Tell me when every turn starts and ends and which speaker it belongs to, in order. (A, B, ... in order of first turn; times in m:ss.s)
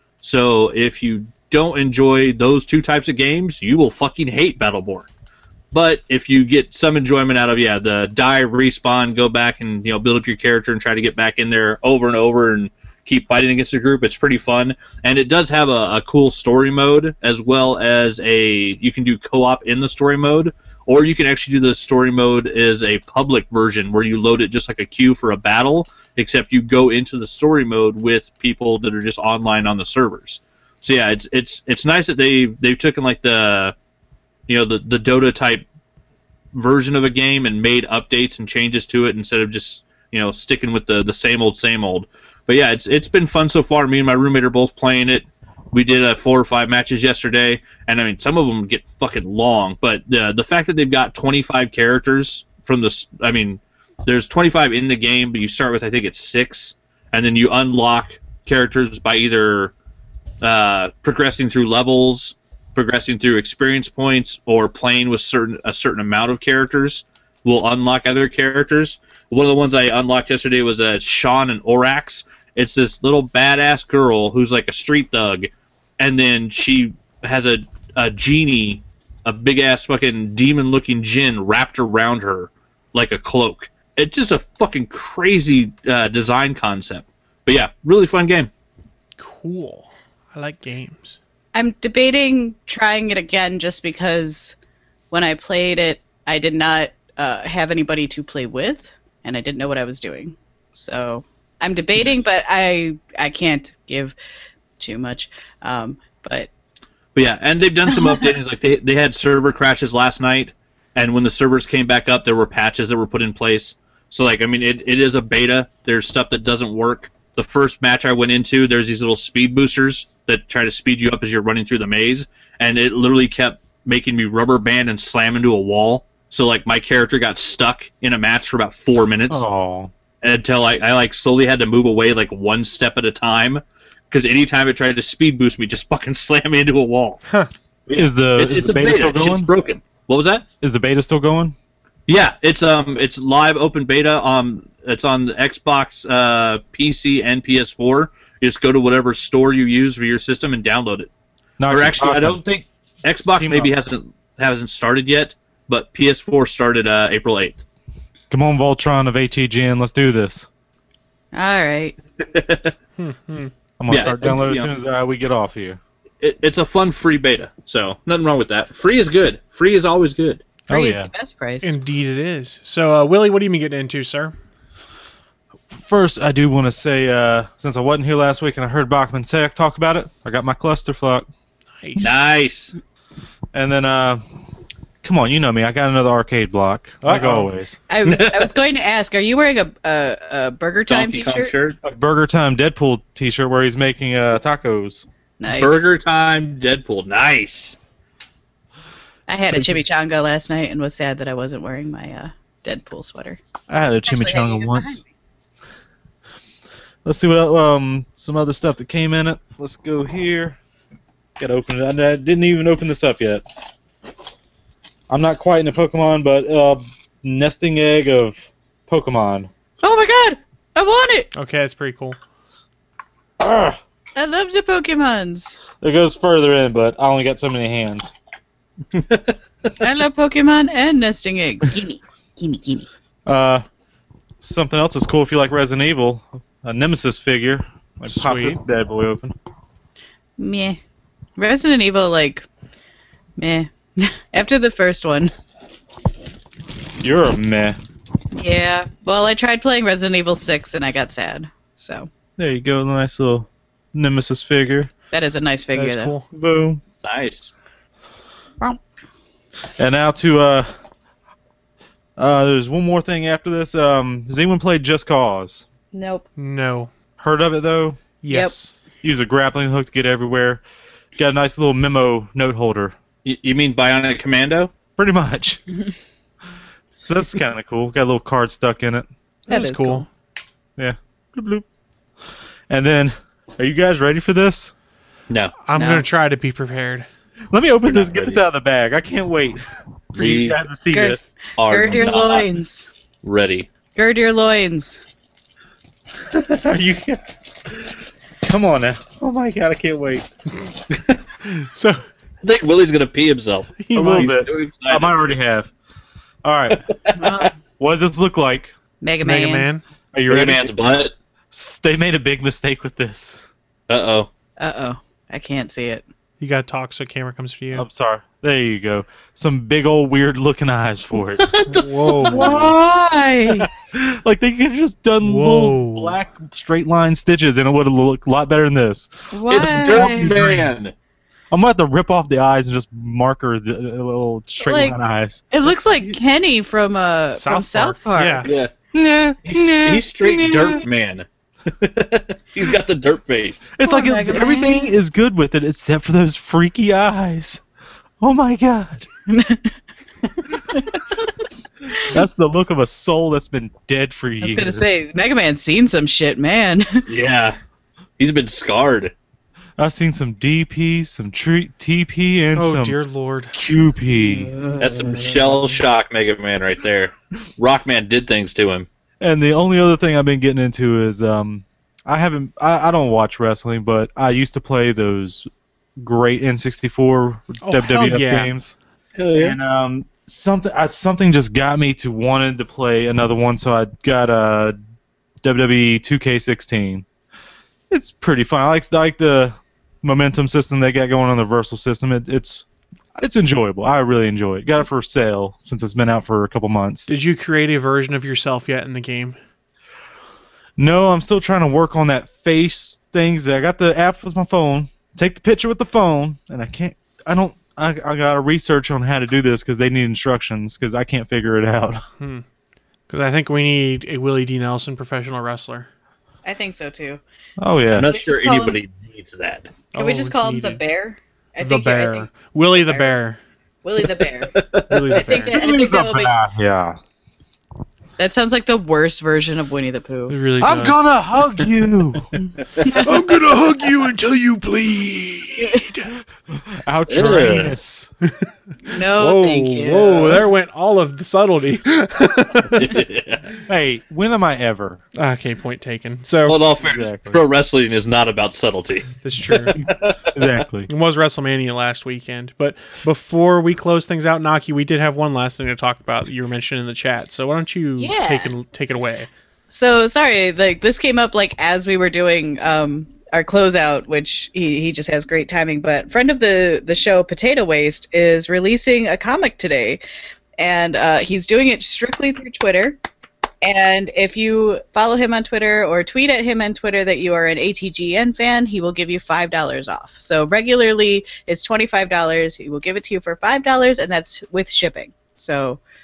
0:00.2-0:05.1 A
0:05.7-0:33.7 A
0:34.5-0:35.6 A
0:36.5-0:59.7 A
1:00.4-1:28.5 A
1:29.2-1:31.2 B
1:31.5-1:34.6 C
1:35.1-1:44.1 C
1:44.8-1:46.5 C
1:47.1-2:09.4 A
2:09.3-2:09.9 D
2:10.2-2:17.2 A
2:17.9-2:20.4 A
2:17.9-2:19.5 D
2:20.6-2:21.5 D
2:22.1-2:31.1 A
2:31.6-2:32.4 D
2:31.7-2:37.6 A
2:33.3-2:33.7 D
2:38.3-2:40.5 D
2:41.3-2:42.0 C
2:42.3-2:42.7 A
2:43.0-2:43.5 B
2:43.8-2:45.8 D
2:43.9-2:44.7 A
2:46.2-2:50.4 A
2:50.7-2:51.1 D
2:50.7-2:51.8 C
2:51.6-2:54.3 B
2:55.8-3:01.3 D
3:01.8-3:02.2 B
3:02.0-3:02.7 A
3:03.5-3:04.2 D
3:05.0-3:07.8 D
3:07.0-3:07.5 B
3:07.9-3:11.5 C
3:08.0-3:08.4 A
3:10.9-3:11.8 A
3:11.8-3:15.0 D
3:15.4-3:15.8 C
3:15.5-3:17.8 A
3:19.3-3:23.4 C
3:23.7-3:25.0 D
3:24.0-3:25.1 C
3:27.0-3:30.6 D
3:31.4-3:33.4 D
3:35.1-3:39.5 D
3:39.8-3:41.3 C
3:41.3-3:42.2 B
3:43.4-3:43.8 D
3:44.1-3:45.6 C
3:45.8-3:48.1 D
3:48.9-3:49.3 A
3:49.8-3:52.9 C
3:53.2-3:53.6 D
3:54.4-3:59.3 D
3:58.0-3:58.6 B
4:00.4-4:00.8 C
4:01.4-4:02.5 C
4:03.4-4:05.3 C
4:07.0-4:07.8 D
4:08.4-4:12.1 C
4:12.4-4:14.9 D
4:15.1-4:16.1 C
4:15.7-4:16.3 B
4:16.3-4:16.8 D
4:17.0-4:17.5 A
4:19.8-4:20.7 D
4:22.2-4:25.6 D
4:25.9-4:26.3 C
4:26.4-4:26.9 B
4:27.2-4:28.0 D
4:28.2-4:28.7 B
4:28.3-4:28.5 C
4:29.0-4:30.6 D
4:31.2-4:32.9 D
4:33.2-4:34.7 A
4:35.0-4:35.6 D
4:37.0-4:39.0 D
4:39.5-4:40.0 C
4:39.5-4:40.1 B
4:40.8-4:41.6 D
4:42.7-4:44.7 D
4:45.3-4:45.5 A
4:45.6-4:47.1 B
4:45.8-4:46.0 C
4:47.5-4:49.6 D
4:47.8-4:48.4 A
4:50.1-4:51.2 D
4:50.2-4:50.6 A
4:50.9-4:52.9 C
4:51.6-4:52.4 A
4:53.2-4:53.7 A
4:53.9-4:55.0 C
4:56.3-4:57.9 D
4:58.4-5:00.3 D
5:00.9-5:01.2 A
5:01.5-5:02.0 B
5:02.4-5:05.3 A
5:03.8-5:04.4 B
5:03.9-5:05.7 D
5:06.4-5:06.9 D
5:07.2-5:07.5 C
5:07.8-5:08.7 D
5:09.0-5:09.7 C
5:09.2-5:09.8 B
5:10.1-5:10.7 D
5:10.3-5:11.1 A
5:11.5-5:13.4 D
5:13.9-5:14.3 A
5:14.6-5:16.0 C
5:16.4-5:17.9 B
5:17.7-5:22.8 D
5:21.4-5:22.5 A
5:21.7-5:22.5 B
5:22.3-5:23.7 C
5:23.9-5:30.7 D
5:25.2-5:26.2 B
5:29.3-5:30.3 C
5:29.5-5:30.9 A
5:31.5-5:35.5 D
5:34.6-5:35.0 C
5:35.5-5:38.5 C
5:37.3-5:38.5 B
5:38.4-5:38.7 A
5:38.9-5:40.8 D
5:39.4-5:43.6 A
5:43.8-5:47.6 D
5:43.8-5:44.9 C
5:48.2-5:49.1 D
5:49.3-5:49.8 C
5:52.0-5:54.9 D
5:54.4-5:57.0 C
5:57.1-5:57.6 A
5:58.2-5:59.1 A
5:59.8-6:03.0 D
6:02.5-6:03.6 B
6:03.5-6:05.6 D
6:04.8-6:08.9 A
6:09.2-6:18.7 D
6:17.6-6:18.5 B
6:19.2-6:19.6 A
6:19.4-6:24.8 D
6:25.4-6:27.0 D
6:27.9-6:32.6 D
6:33.2-6:37.1 D
6:37.1-6:39.4 B
6:40.8-6:52.0 D
6:52.2-6:52.4 B
6:53.1-6:55.9 B
6:56.4-6:57.2 C
6:57.6-6:58.1 D
6:57.9-6:59.7 A
6:57.9-6:58.8 C
6:59.9-7:00.8 B
7:00.0-7:03.1 C
7:01.6-7:03.4 B
7:03.8-7:04.6 C
7:04.5-7:05.2 A
7:04.9-7:05.6 B
7:05.1-7:06.3 C
7:05.5-7:07.0 D
7:08.2-7:10.3 C
7:10.3-7:11.0 B
7:10.6-7:12.3 D
7:12.8-7:13.3 C
7:13.0-7:16.1 B
7:15.6-7:15.9 C
7:16.5-7:18.1 D
7:17.1-7:17.7 A
7:18.8-7:20.3 C
7:19.2-7:23.0 B
7:22.7-7:23.6 A
7:23.7-7:25.0 D
7:25.1-7:26.6 B
7:26.4-7:29.1 A
7:26.8-7:27.4 D
7:29.2-7:29.8 B
7:29.7-7:30.9 D
7:29.8-7:30.3 A
7:30.9-7:39.3 B
7:38.0-7:38.5 C
7:39.7-7:50.0 C
7:50.6-7:53.0 C
7:53.6-8:05.8 C